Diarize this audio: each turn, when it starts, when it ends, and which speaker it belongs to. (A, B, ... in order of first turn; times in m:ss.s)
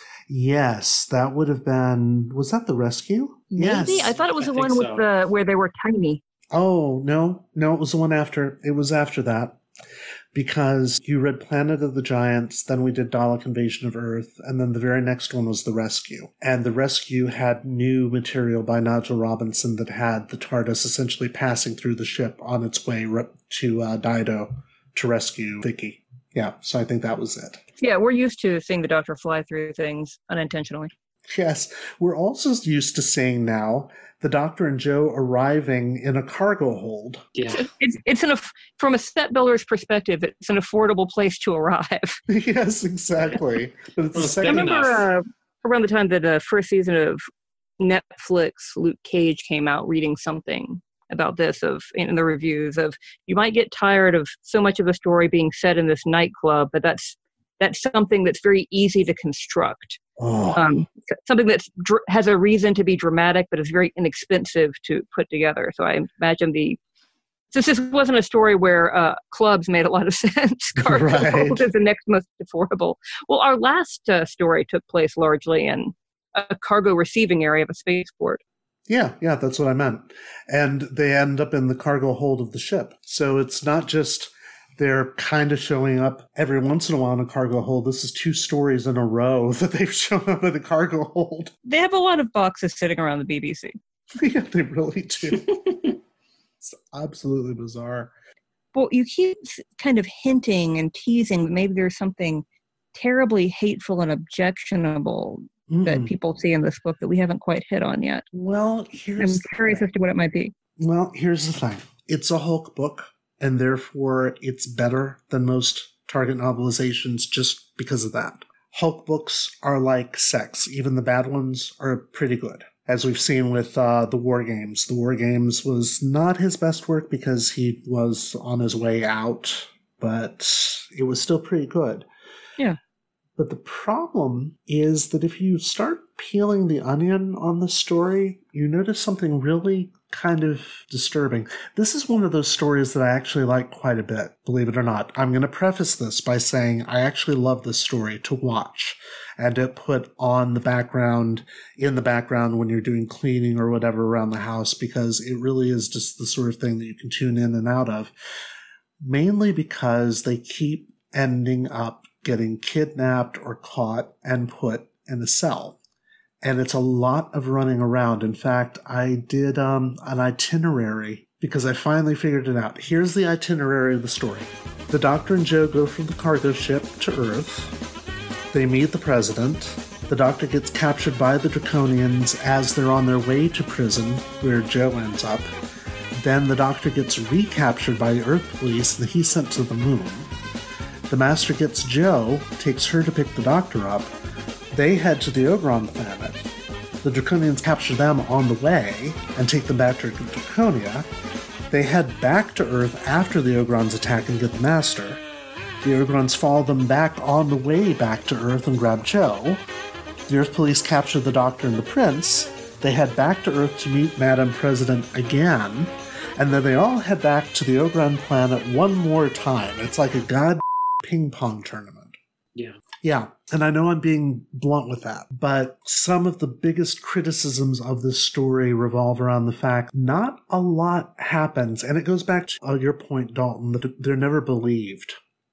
0:00.3-0:04.1 A
0:03.5-0:06.2 B
0:04.0-0:05.1 C
0:06.5-0:09.6 A
0:10.3-0:27.6 A
0:27.8-0:30.9 B
0:31.3-0:37.2 A
0:37.4-0:37.6 C
0:37.6-0:42.2 B
0:42.3-0:44.8 A
0:44.2-0:45.1 C
0:44.4-0:47.2 B
0:47.8-1:00.0 B
1:00.2-1:00.6 A
1:00.6-1:06.8 B
1:07.5-1:18.4 B
1:10.8-1:11.6 A
1:18.9-1:31.5 A
1:31.7-1:33.8 B
1:34.2-1:35.5 A
1:35.5-1:35.9 C
1:36.6-1:38.1 A
1:38.7-1:48.2 B
1:45.7-1:46.1 A
1:48.3-1:49.9 A
1:49.2-1:50.5 B
1:50.8-2:12.1 A
2:13.4-2:38.1 A
2:39.0-2:45.8 A
2:46.4-2:57.8 A
2:58.5-3:05.5 A
3:06.2-3:10.3 A
3:11.1-3:14.1 A
3:14.7-3:16.5 A
3:17.0-3:21.1 A
3:21.7-3:25.2 A
3:25.8-3:29.6 A
3:30.3-3:42.2 A
3:43.0-3:55.2 A